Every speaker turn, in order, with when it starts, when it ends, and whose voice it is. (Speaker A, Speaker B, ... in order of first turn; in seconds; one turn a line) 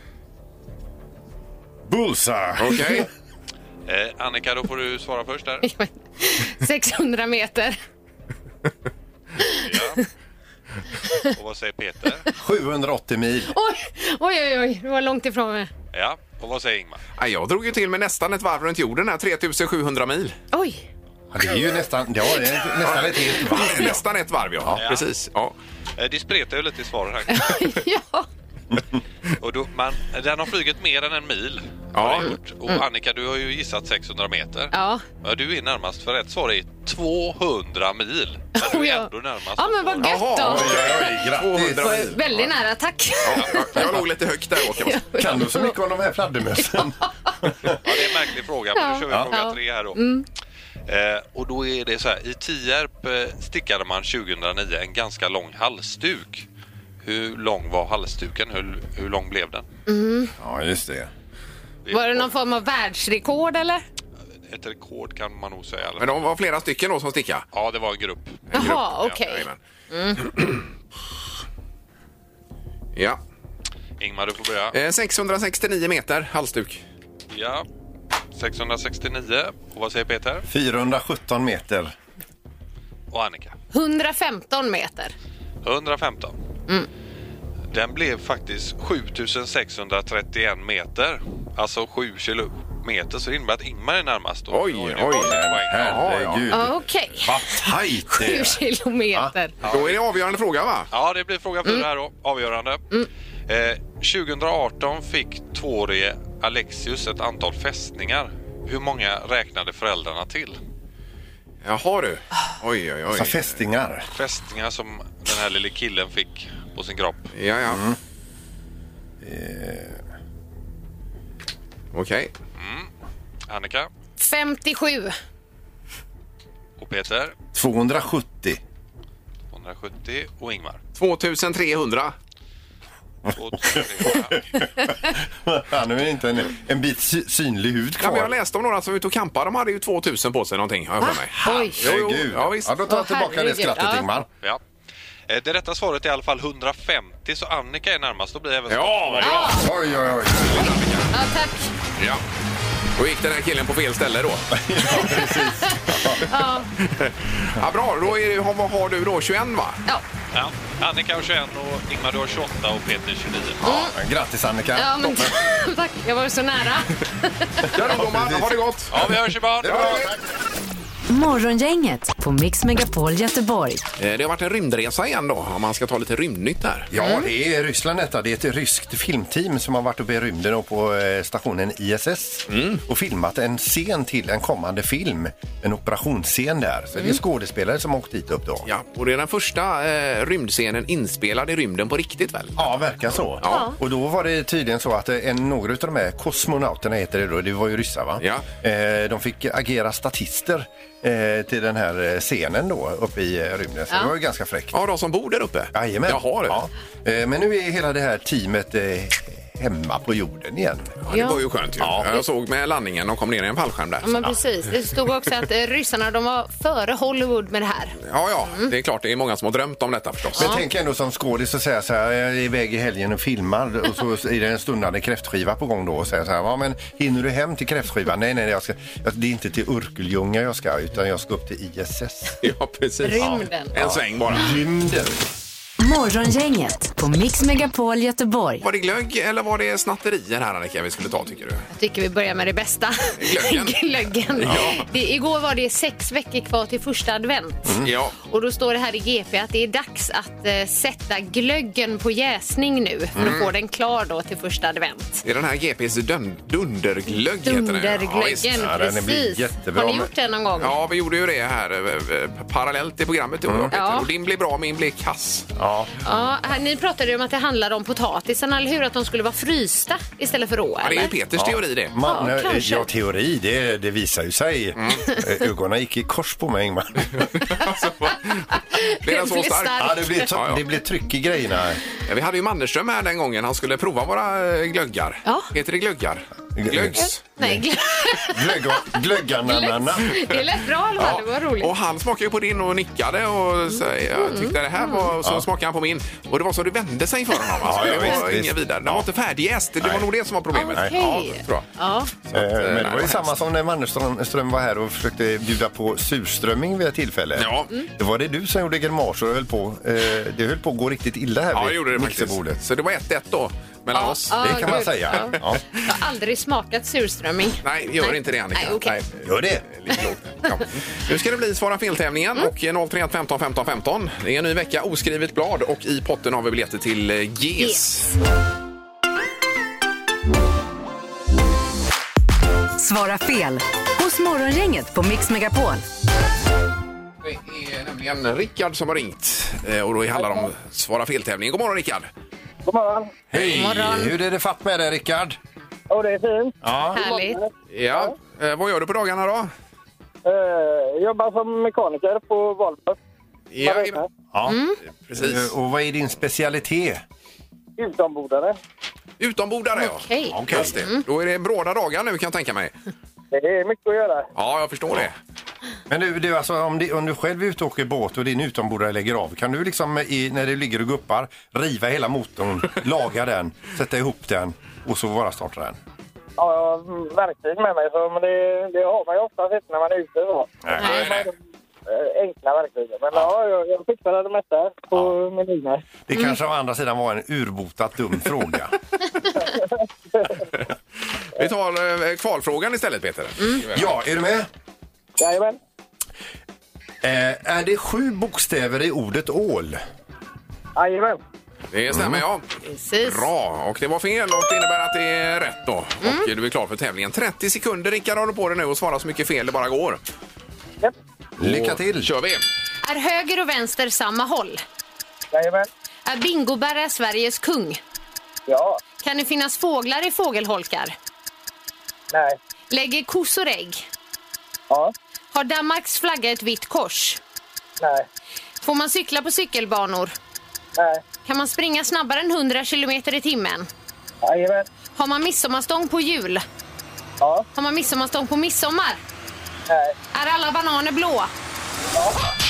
Speaker A: 1.9-3.1
Speaker B: 2.6-3.1
Speaker C: 3.9-5.7
Speaker D: 5.6-7.8
Speaker D: 9.4-10.0
Speaker C: 9.6-10.0
Speaker C: 11.3-12.3
Speaker A: 12.4-13.5
Speaker D: 13.5-15.7
Speaker C: 15.9-17.0
Speaker B: 17.2-20.4
Speaker D: 20.5-20.8
Speaker A: 21.3-24.0
Speaker B: 22.8-25.6
Speaker C: 24.8-25.1
Speaker C: 26.0-27.8
Speaker D: 27.3-28.3
Speaker C: 29.4-40.2
Speaker B: 31.9-32.3
Speaker D: 32.2-32.8
Speaker D: 34.7-35.0
Speaker D: 38.6-41.1
Speaker B: 40.0-42.4
Speaker A: 40.4-42.2
Speaker D: 41.6-44.0
Speaker B: 43.2-45.1
Speaker D: 44.8-45.8
Speaker A: 45.2-47.8
Speaker D: 46.6-47.3
Speaker C: 47.8-50.0
Speaker D: 48.8-50.2
Speaker C: 50.9-56.5
Speaker C: 57.0-59.6
Speaker D: 59.9-60.3
Speaker A: 60.4-61.1
Speaker C: 61.9-62.3
Speaker D: 61.9-63.8
Speaker C: 64.5-66.1
Speaker B: 66.0-67.5
Speaker C: 67.5-69.1
Speaker B: 68.5-69.6
Speaker D: 68.5-70.2
Speaker B: 70.2-70.6
Speaker B: 72.9-73.2
Speaker C: 74.0-74.8
Speaker B: 74.7-76.8
Speaker C: 77.3-77.7
Speaker C: 78.3-80.4
Speaker A: 80.5-81.9
Speaker C: 83.1-83.5
Speaker D: 83.7-85.1
Speaker C: 85.6-86.3
Speaker C: 87.7-96.0
Speaker B: 94.5-96.5
Speaker A: 95.1-98.6
Speaker D: 96.5-99.5
Speaker C: 99.6-100.0
Speaker B: 99.6-100.9
Speaker C: 100.9-102.8
Speaker C: 103.5-110.6
Speaker B: 111.6-113.5
Speaker A: 113.1-114.1
Speaker C: 114.1-117.3
Speaker B: 117.3-117.8
Speaker A: 117.7-118.0
Speaker A: 119.2-120.0
Speaker B: 121.9-122.3
Speaker C: 122.6-122.9
Speaker C: 123.5-123.9
Speaker D: 124.2-125.1
Speaker C: 126.8-127.3
Speaker A: 127.5-128.6
Speaker C: 129.5-130.8
Speaker B: 130.9-132.1
Speaker A: 133.3-138.3
Speaker C: 133.4-134.5
Speaker B: 138.0-142.8
Speaker D: 141.0-141.8
Speaker A: 141.4-144.3
Speaker D: 142.9-144.1
Speaker C: 145.3-149.5
Speaker B: 148.7-151.1
Speaker D: 149.2-149.6
Speaker A: 149.4-150.7
Speaker D: 151.1-151.7
Speaker B: 152.0-152.2
Speaker B: 153.0-154.5
Speaker A: 154.5-156.2
Speaker D: 154.9-156.7
Speaker B: 156.8-159.8
Speaker C: 160.3-163.6
Speaker D: 163.6-163.9
Speaker A: 163.6-165.4
Speaker D: 164.8-167.7
Speaker B: 167.7-168.9
Speaker A: 167.8-170.2
Speaker C: 168.9-169.9
Speaker B: 169.6-170.1
Speaker E: 171.1-173.8
Speaker B: 174.0-176.9
Speaker A: 176.9-188.7
Speaker D: 177.0-177.3
Speaker B: 182.5-182.8
Speaker B: 188.7-192.7
Speaker A: 192.6-204.8
Speaker B: 193.4-193.7
Speaker D: 193.4-193.8
Speaker B: 198.2-198.5
Speaker B: 204.7-206.6
Speaker A: 205.7-210.9
Speaker B: 211.0-214.3
Speaker D: 211.1-211.4
Speaker A: 211.8-212.2
Speaker D: 214.0-218.7
Speaker B: 218.0-220.6
Speaker D: 220.4-220.6
Speaker A: 220.4-232.4
Speaker B: 232.4-234.6
Speaker D: 233.0-233.7
Speaker A: 233.8-235.2
Speaker E: 235.8-238.6
Speaker B: 238.6-241.7
Speaker D: 241.7-255.2
Speaker B: 243.2-244.8
Speaker A: 247.7-247.9
Speaker B: 247.8-248.1
Speaker B: 253.2-253.5
Speaker B: 255.2-258.6
Speaker D: 257.1-260.8
Speaker A: 258.6-260.1
Speaker B: 260.6-265.5
Speaker A: 263.5-263.7
Speaker D: 263.7-264.1
Speaker A: 265.6-265.9
Speaker D: 266.0-271.1
Speaker B: 270.8-271.9
Speaker A: 271.4-277.3
Speaker D: 272.1-272.9
Speaker B: 274.8-275.0
Speaker B: 277.1-280.6
Speaker D: 277.4-277.7
Speaker D: 278.5-280.3
Speaker A: 279.8-281.8
Speaker B: 282.1-287.2
Speaker D: 285.2-285.5
Speaker A: 286.6-290.2
Speaker D: 286.9-291.7
Speaker B: 291.0-301.7
Speaker D: 293.7-295.1
Speaker A: 297.6-299.1
Speaker A: 299.8-300.1
Speaker D: 300.5-302.1
Speaker B: 302.3-303.3
Speaker A: 302.3-312.6
Speaker B: 307.4-307.7
Speaker B: 311.5-315.4
Speaker D: 313.9-319.0
Speaker A: 314.4-315.6
Speaker B: 317.6-328.1
Speaker A: 319.2-319.6
Speaker E: 332.8-335.8
Speaker B: 337.2-342.1
Speaker F: 340.1-340.5
Speaker F: 342.6-343.1
Speaker A: 343.3-345.4
Speaker B: 343.3-343.7
Speaker D: 343.5-344.1
Speaker F: 345.9-348.1
Speaker A: 346.6-347.0
Speaker D: 346.9-347.4
Speaker B: 347.7-349.5
Speaker F: 350.2-353.0
Speaker B: 353.5-354.0
Speaker F: 353.6-354.1
Speaker A: 354.3-354.6
Speaker D: 354.5-354.8
Speaker B: 355.1-355.5
Speaker A: 355.1-357.0
Speaker F: 357.8-358.6
Speaker B: 359.2-362.7
Speaker D: 359.8-361.0
Speaker A: 360.3-360.9
Speaker F: 363.3-364.3
Speaker B: 364.4-365.1
Speaker A: 365.9-375.8
Speaker F: 376.4-381.3
Speaker A: 380.6-381.3
Speaker D: 380.8-381.1
Speaker B: 380.8-381.2
Speaker F: 381.9-385.9
Speaker A: 386.1-388.8
Speaker F: 389.4-390.4
Speaker B: 391.4-393.9
Speaker A: 393.7-394.5
Speaker F: 395.2-395.6
Speaker A: 397.0-399.8
Speaker F: 400.8-401.2
Speaker B: 401.7-402.4
Speaker A: 401.9-402.2
Speaker D: 402.6-403.3
Speaker B: 403.0-410.0
Speaker D: 406.0-406.3
Speaker A: 411.4-412.1
Speaker B: 411.4-412.4
Speaker D: 412.8-414.6
Speaker F: 415.3-415.7
Speaker D: 416.1-417.8
Speaker F: 418.5-418.8
Speaker D: 419.0-420.9
Speaker F: 422.1-422.4
Speaker D: 422.7-423.9
Speaker D: 425.3-427.2
Speaker F: 427.8-428.1
Speaker D: 428.6-430.1
Speaker F: 430.8-431.0
Speaker D: 431.2-433.7
Speaker F: 434.2-434.7
Speaker D: 434.9-436.4
Speaker F: 437.2-437.4
Speaker D: 437.6-439.0
Speaker F: 439.7-439.9
Speaker D: 440.1-441.3